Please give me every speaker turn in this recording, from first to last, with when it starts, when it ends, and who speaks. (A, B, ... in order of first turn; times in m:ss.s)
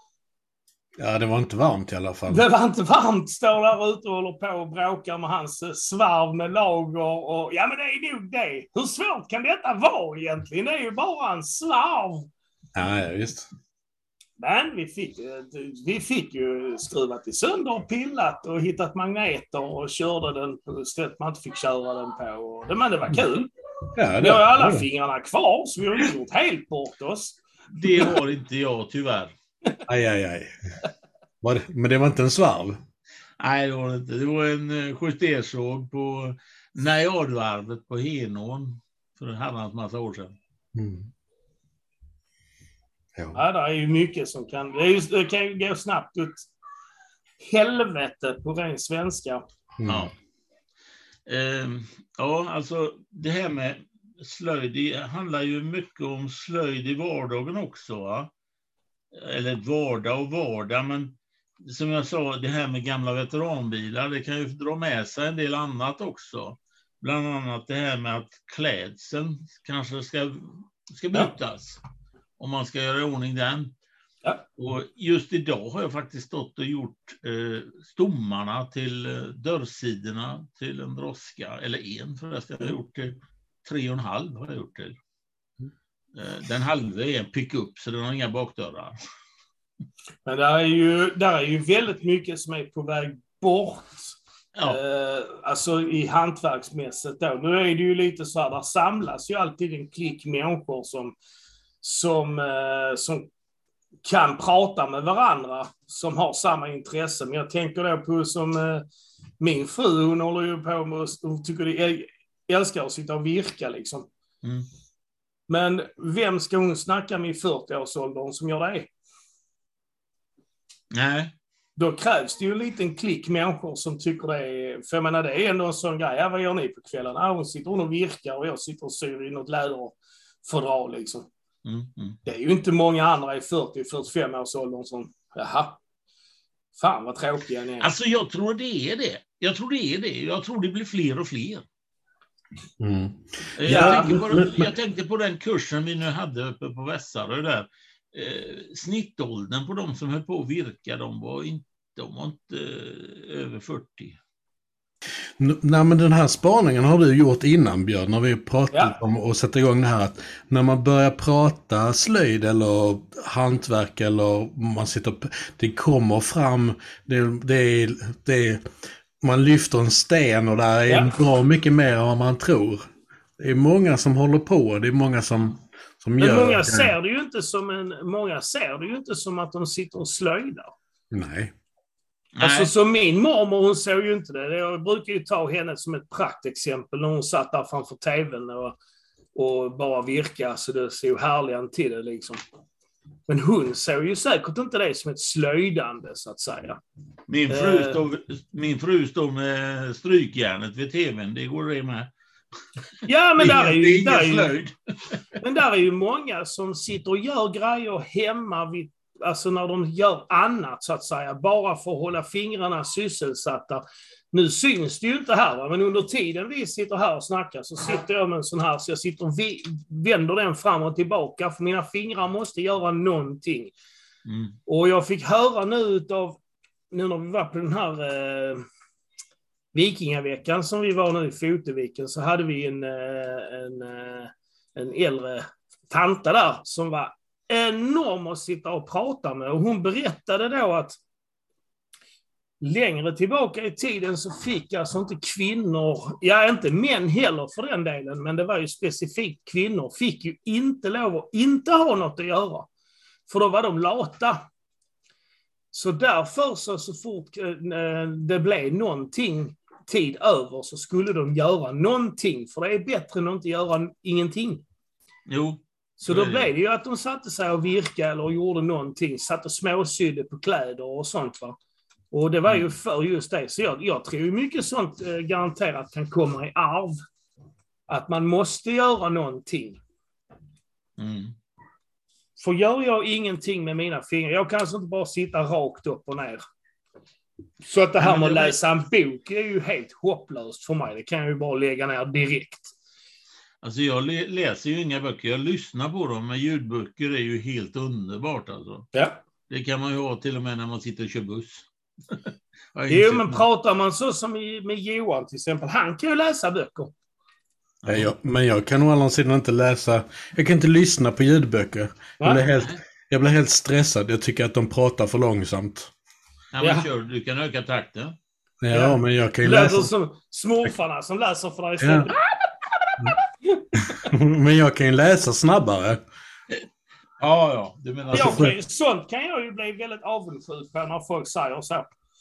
0:01.0-0:02.4 A
0:02.3-0:12.3 B
0:12.7-0:13.5 A
0:14.4-0:23.5 B
0:23.9-0:24.8 A
0:24.2-0:27.4 B
0:27.7-0:29.3 C
0:29.9-0:30.5 A
0:31.4-0:32.8 A
0:33.4-0:40.4 C
0:40.7-0:41.1 A
0:43.3-0:46.5 B
0:47.4-0:49.4 B
0:49.8-0:50.1 A
0:49.8-0:50.1 C
0:51.2-0:58.3 C
0:59.1-1:11.8 C
1:12.4-1:13.7 C
1:14.6-1:25.0 C
1:26.2-1:29.0 C
1:30.2-1:41.1 B
1:34.5-1:34.8 C
1:41.8-1:43.3 B
1:44.0-1:48.8 B
1:49.4-1:54.1 B
1:55.5-1:58.9 B
2:00.9-2:01.3 C
2:01.8-2:11.3 B
2:11.6-2:12.2 C
2:12.2-2:15.8 B
2:16.8-2:17.9 B
2:17.8-2:21.6 C
2:22.8-2:24.7 A
2:23.6-2:34.2 C
2:23.6-2:24.2 B
2:35.4-2:48.6 A
2:38.7-2:39.0 B
2:49.2-2:52.8 A
2:53.4-2:56.9 A
2:56.2-3:00.7 B
3:01.1-3:01.5 A
3:02.4-3:02.7 C
3:02.4-3:08.8 B
3:09.3-3:12.4 B
3:13.3-3:16.8 B
3:17.3-3:22.1 C
3:17.5-3:18.0 B
3:23.0-3:24.5 B
3:23.4-3:24.7 C
3:25.4-3:43.7 B
3:44.2-3:44.6 C
3:44.7-3:46.4 B
3:46.9-3:48.6 B
3:49.7-4:01.0 B
4:02.6-4:12.7 B
4:13.3-4:14.4 B
4:15.7-4:24.6 B
4:25.3-4:26.5 C
4:26.0-4:31.6 B
4:32.1-4:36.9 B
4:37.9-4:39.8 B
4:41.0-4:41.3 C
4:42.4-4:46.4 B
4:47.6-4:52.7 B
4:48.0-4:48.6 C
4:53.6-4:58.9 C
4:58.9-4:59.2 B
4:59.5-5:03.4 C
5:02.9-5:06.9 B
5:07.8-5:08.1 C
5:07.8-5:15.9 A
5:12.5-5:12.8 C
5:16.5-5:18.2 C
5:16.6-5:16.9 B
5:18.6-5:19.9 A
5:18.7-5:24.1 B
5:21.8-5:22.1 A
5:24.0-5:26.0 A
5:27.2-5:28.5 C
5:28.1-5:31.9 B
5:28.1-5:28.5 A